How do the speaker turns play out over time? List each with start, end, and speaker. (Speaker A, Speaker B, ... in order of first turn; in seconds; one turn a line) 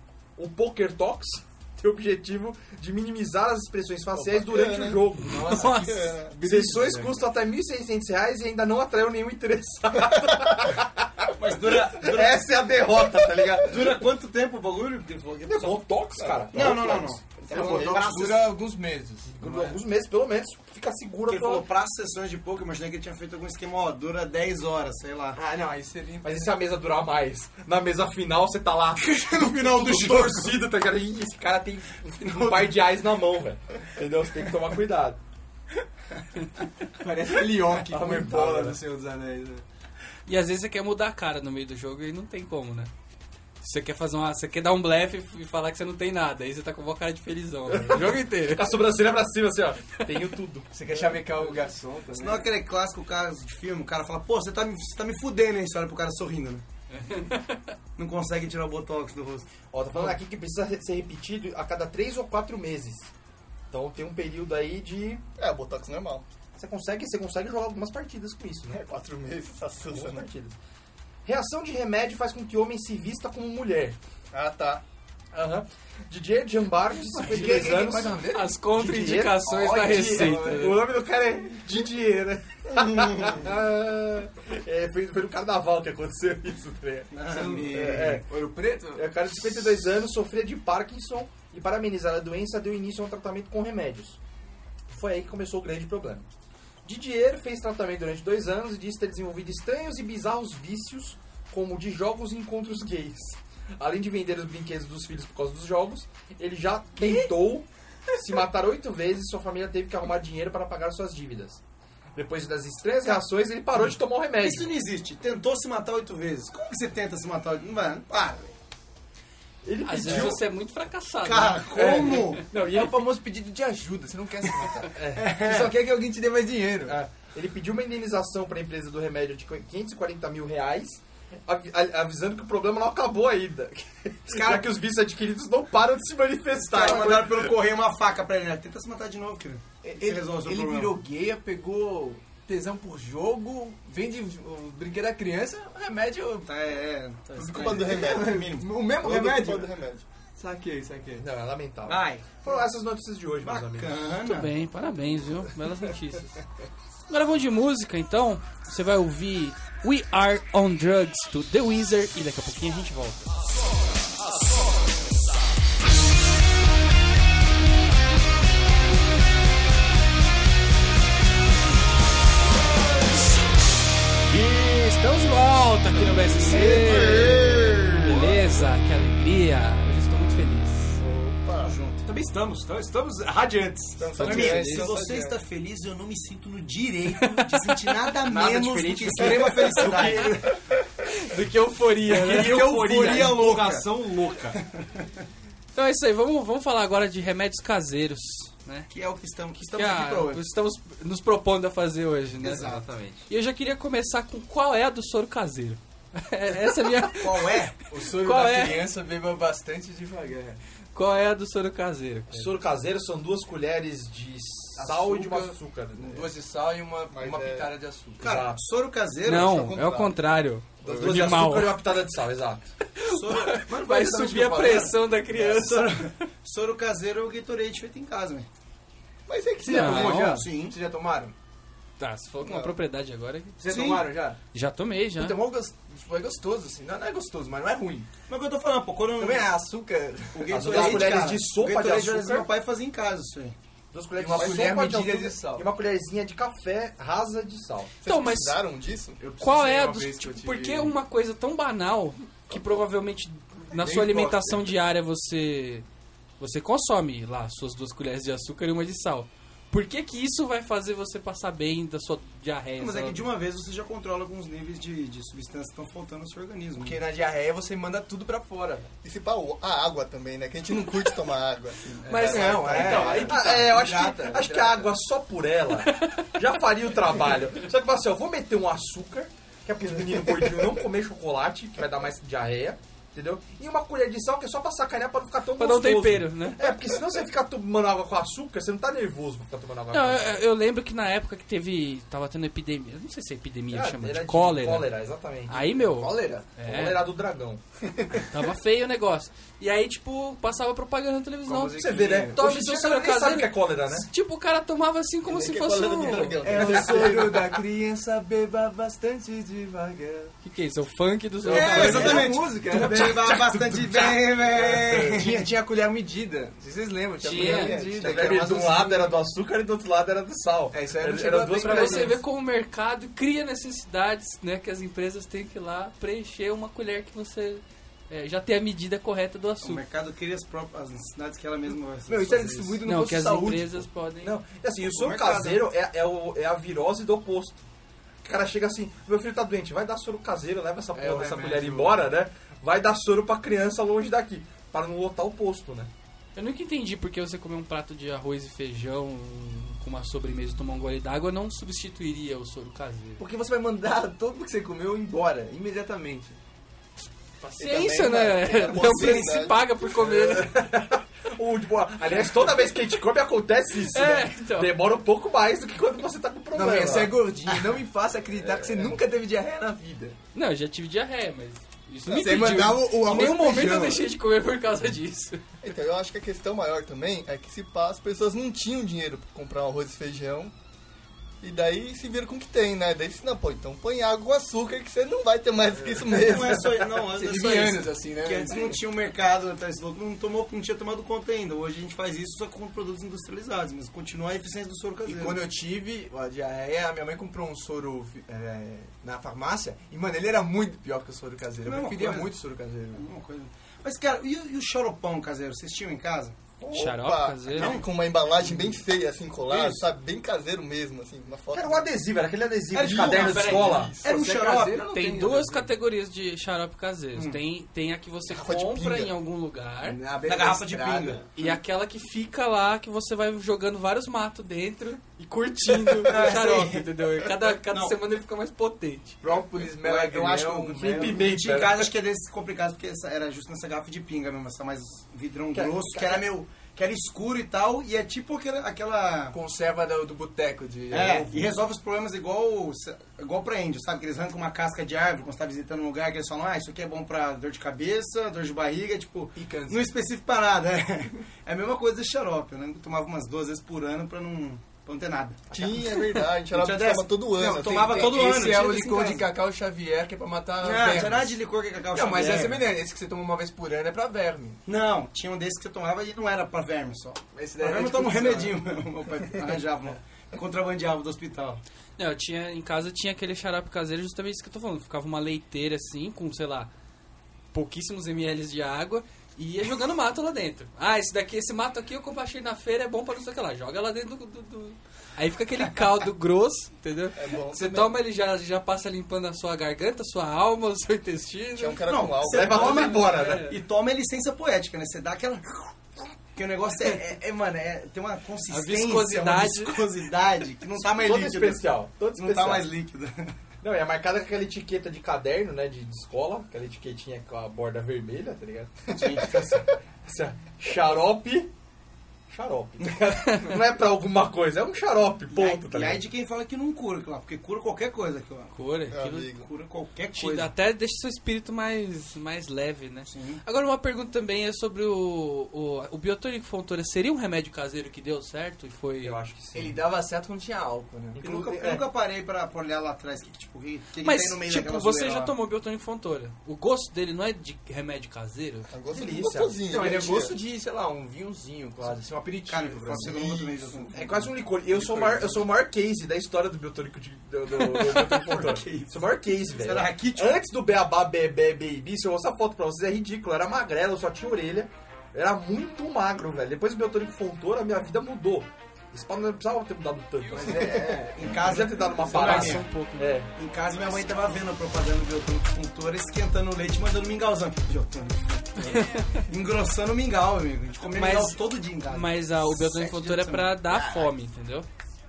Speaker A: 0.4-13.9
Speaker B: 4.2-5.0
Speaker C: 5.2-7.2
Speaker D: 5.3-6.1
Speaker B: 5.7-6.3
Speaker E: 11.3-12.5
Speaker E: 13.6-15.8
Speaker A: 15.5-18.0
Speaker B: 16.1-16.7
Speaker E: 16.5-18.5
Speaker C: 17.5-19.8
Speaker A: 19.3-21.6
Speaker E: 21.3-25.4
Speaker C: 25.3-26.5
Speaker A: 26.2-35.2
Speaker E: 29.0-30.6
Speaker E: 32.2-32.8
Speaker C: 36.9-39.6
Speaker A: 37.8-38.8
Speaker D: 40.3-42.9
Speaker D: 43.6-48.8
Speaker A: 47.7-51.2
Speaker C: 50.7-52.5
Speaker E: 52.1-56.6
Speaker D: 56.9-57.7
Speaker E: 58.0-60.1
Speaker A: 59.7-63.1
Speaker A: 63.7-65.2
Speaker B: 65.4-66.2
Speaker A: 66.5-68.8
Speaker B: 68.7-70.3
Speaker A: 69.9-70.5
Speaker A: 71.2-74.0
Speaker B: 74.3-74.8
Speaker A: 75.3-88.3
Speaker C: 77.2-78.6
Speaker D: 78.2-80.8
Speaker C: 79.5-80.9
Speaker E: 87.1-88.2
Speaker C: 87.2-89.2
Speaker A: 88.9-94.2
Speaker A: 94.9-96.2
Speaker A: 96.8-111.6
Speaker C: 107.0-107.3
Speaker A: 112.1-114.7
Speaker E: 113.7-118.5
Speaker A: 119.6-120.5
Speaker D: 119.8-122.1
Speaker E: 121.2-122.4
Speaker A: 121.7-123.1
Speaker C: 122.5-127.0
Speaker A: 124.8-125.4
Speaker E: 125.1-125.8
Speaker A: 126.8-137.5
Speaker E: 134.3-134.7
Speaker E: 136.6-140.9
Speaker C: 139.8-146.5
Speaker E: 146.5-148.7
Speaker B: 147.4-148.4
Speaker C: 147.6-149.7
Speaker B: 149.0-150.0
Speaker C: 150.4-151.2
Speaker A: 151.2-154.0
Speaker E: 151.8-152.6
Speaker E: 153.4-154.5
Speaker D: 154.2-156.3
Speaker D: 157.1-163.2
Speaker D: 174.3-181.0
Speaker B: 176.5-177.9
Speaker B: 181.0-181.7
Speaker E: 181.6-190.5
Speaker B: 184.0-185.3
Speaker C: 184.2-184.9
Speaker D: 184.2-184.8
Speaker D: 187.2-187.8
Speaker A: 188.2-190.6
Speaker D: 191.1-192.6
Speaker A: 192.1-194.5
Speaker E: 192.1-195.1
Speaker D: 195.7-198.9
Speaker E: 198.9-200.4
Speaker D: 199.6-202.8
Speaker E: 202.4-202.9
Speaker A: 202.6-203.2
Speaker D: 203.3-207.6
Speaker E: 207.2-207.8
Speaker C: 207.9-210.6
Speaker D: 208.2-208.8
Speaker D: 210.9-212.5
Speaker A: 212.3-216.3
Speaker C: 214.8-218.2
Speaker B: 217.1-217.7
Speaker A: 218.2-218.6
Speaker E: 218.2-219.6
Speaker D: 219.2-221.8
Speaker B: 219.3-220.2
Speaker C: 220.8-221.2
Speaker A: 220.9-222.7
Speaker D: 222.8-226.2
Speaker E: 223.1-223.7
Speaker C: 223.6-225.0
Speaker E: 224.6-228.5
Speaker B: 229.3-229.9
Speaker C: 229.3-231.3
Speaker D: 229.7-230.4
Speaker E: 229.7-230.8
Speaker D: 232.0-233.6
Speaker B: 232.4-232.8
Speaker C: 233.6-234.4
Speaker E: 233.6-234.1
Speaker D: 234.5-235.4
Speaker C: 235.2-238.1
Speaker E: 238.3-239.5
Speaker C: 239.2-241.2
Speaker E: 240.3-243.6
Speaker A: 240.5-242.5
Speaker A: 243.9-247.9
Speaker C: 244.2-245.7
Speaker B: 248.0-249.2
Speaker D: 248.0-248.6
Speaker C: 249.2-251.0
Speaker D: 249.4-255.8
Speaker C: 253.7-254.7
Speaker D: 256.4-263.3
Speaker E: 262.8-267.0
Speaker C: 266.8-268.9
Speaker B: 269.0-272.9
Speaker C: 272.0-274.9
Speaker D: 272.1-273.6
Speaker A: 272.9-290.4
Speaker D: 275.8-276.3
Speaker D: 285.6-286.7
Speaker D: 289.9-294.9
Speaker A: 293.7-295.7
Speaker D: 295.5-297.1
Speaker C: 295.8-296.6
Speaker A: 296.6-297.6
Speaker D: 298.1-306.8
Speaker C: 301.4-302.5
Speaker A: 301.8-304.1
Speaker B: 305.3-307.6
Speaker C: 306.1-310.4
Speaker D: 310.4-312.3
Speaker C: 311.4-313.2
Speaker E: 311.5-315.5
Speaker A: 312.7-315.1
Speaker C: 315.1-319.1
Speaker D: 317.2-318.0
Speaker B: 317.3-318.6
Speaker A: 318.0-322.2
Speaker C: 320.7-322.2
Speaker D: 321.6-329.8
Speaker E: 329.6-332.8
Speaker C: 332.1-333.9
Speaker D: 332.8-334.3
Speaker A: 334.2-337.6
Speaker E: 334.8-335.6
Speaker A: 338.2-345.9
Speaker C: 340.9-342.0
Speaker D: 346.3-353.2
Speaker C: 353.2-356.4
Speaker D: 357.5-360.6
Speaker B: 357.6-359.8
Speaker E: 358.7-359.5
Speaker A: 360.0-367.2
Speaker D: 363.9-364.8
Speaker C: 366.5-370.1
Speaker D: 370.3-375.4
Speaker C: 372.1-374.1
Speaker B: 375.6-380.5
Speaker B: 381.4-386.7
Speaker E: 386.0-395.4
Speaker C: 387.1-388.8
Speaker C: 395.1-403.1
Speaker E: 401.6-402.3
Speaker E: 402.9-406.4
Speaker B: 406.6-411.9
Speaker D: 406.7-407.8
Speaker E: 407.5-407.9
Speaker A: 409.5-409.8
Speaker A: 411.5-414.0
Speaker E: 412.7-414.9
Speaker B: 412.9-414.0
Speaker C: 413.1-415.7
Speaker D: 413.1-413.9
Speaker D: 414.9-420.0
Speaker E: 417.1-417.4
Speaker B: 418.3-419.1
Speaker C: 419.8-421.3
Speaker E: 420.2-421.2
Speaker D: 421.4-429.2
Speaker E: 426.0-427.0
Speaker E: 427.6-427.9
Speaker C: 429.2-431.3
Speaker E: 429.8-439.4
Speaker A: 430.8-431.9
Speaker A: 435.5-436.3
Speaker C: 439.3-441.6
Speaker E: 440.9-455.6
Speaker C: 449.4-449.9
Speaker B: 455.5-458.4
Speaker E: 456.2-459.3
Speaker C: 457.4-461.4
Speaker E: 460.6-462.7
Speaker C: 461.9-464.6
Speaker E: 464.6-471.6
Speaker C: 467.3-468.6
Speaker D: 472.0-476.7
Speaker D: 477.5-491.9
Speaker B: 487.1-488.0
Speaker B: 491.5-492.6
Speaker E: 491.9-503.3
Speaker A: 492.2-493.5
Speaker D: 492.5-493.6
Speaker D: 498.5-499.8
Speaker A: 500.8-502.7
Speaker A: 503.6-509.5
Speaker E: 508.9-509.7
Speaker A: 510.0-511.5
Speaker A: 512.3-516.0
Speaker E: 515.3-518.5
Speaker D: 518.5-519.3
Speaker B: 518.9-519.5
Speaker E: 519.4-520.5
Speaker D: 520.1-529.2
Speaker E: 523.1-523.4
Speaker A: 529.0-529.8
Speaker C: 529.5-531.2
Speaker A: 531.1-531.8
Speaker E: 531.2-535.3
Speaker D: 534.0-538.7
Speaker B: 538.7-540.4
Speaker A: 538.9-539.8
Speaker C: 539.6-543.9
Speaker E: 542.5-545.4
Speaker A: 543.9-563.3
Speaker E: 547.5-550.4
Speaker C: 560.4-561.5
Speaker E: 561.1-562.7
Speaker D: 562.1-563.1
Speaker E: 563.4-573.6
Speaker D: 568.6-569.2
Speaker D: 570.9-574.7
Speaker C: 573.7-574.0